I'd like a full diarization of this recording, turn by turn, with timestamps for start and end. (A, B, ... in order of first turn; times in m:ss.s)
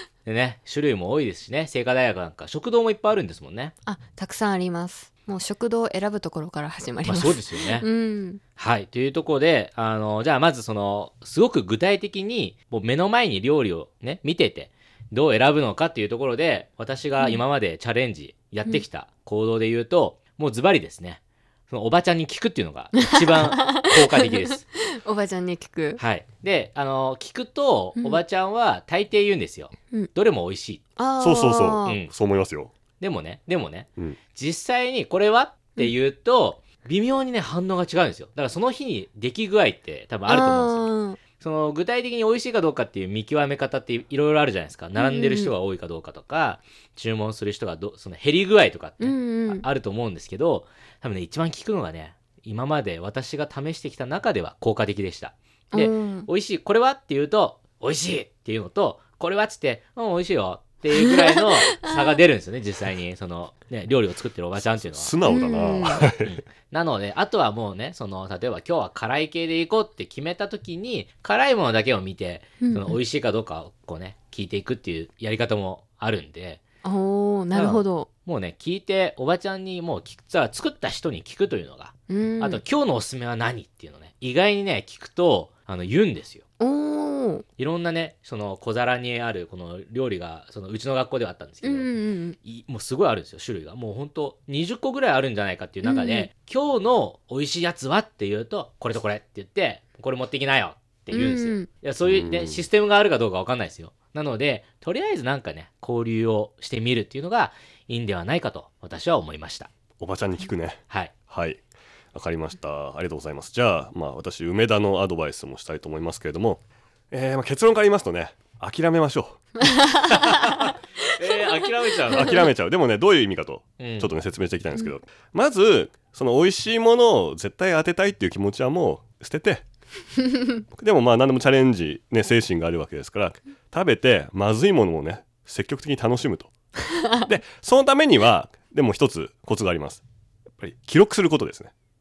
0:00.2-0:03.7 A
0:03.8-0:08.4 B
0:07.0-0:07.9 A
0:08.6-0:24.7 A
0:23.0-0:24.0 B
0:24.8-0:26.0 B
0:26.0-0:30.8 A
0:31.0-0:32.0 B
0:31.2-0:32.7 C
0:31.8-0:32.1 A
0:33.0-1:05.1 A
0:40.3-0:41.2 B
0:45.0-0:45.5 B
0:49.0-0:49.6 B
0:55.7-0:56.3 B
1:00.9-1:02.2 B
1:04.6-1:06.4 C
1:05.2-1:06.1 B
1:05.8-1:16.6 A
1:12.6-1:13.0 B
1:16.8-1:18.1 B
1:17.5-1:26.4 A
1:22.1-1:22.6 B
1:26.6-1:27.4 B
1:27.6-1:31.9 A
1:31.6-1:32.4 B
1:32.4-1:49.7 A
1:35.8-1:36.3 B
1:41.1-1:41.7 B
1:42.0-1:42.6 C
1:50.0-1:51.6 C
1:52.1-1:59.6 C
1:59.6-2:00.4 B
2:00.0-2:02.5 A
2:02.1-2:09.6 C
2:03.8-2:04.1 A
2:10.7-2:16.5 C
2:17.2-2:20.0 C
2:20.6-2:21.7 C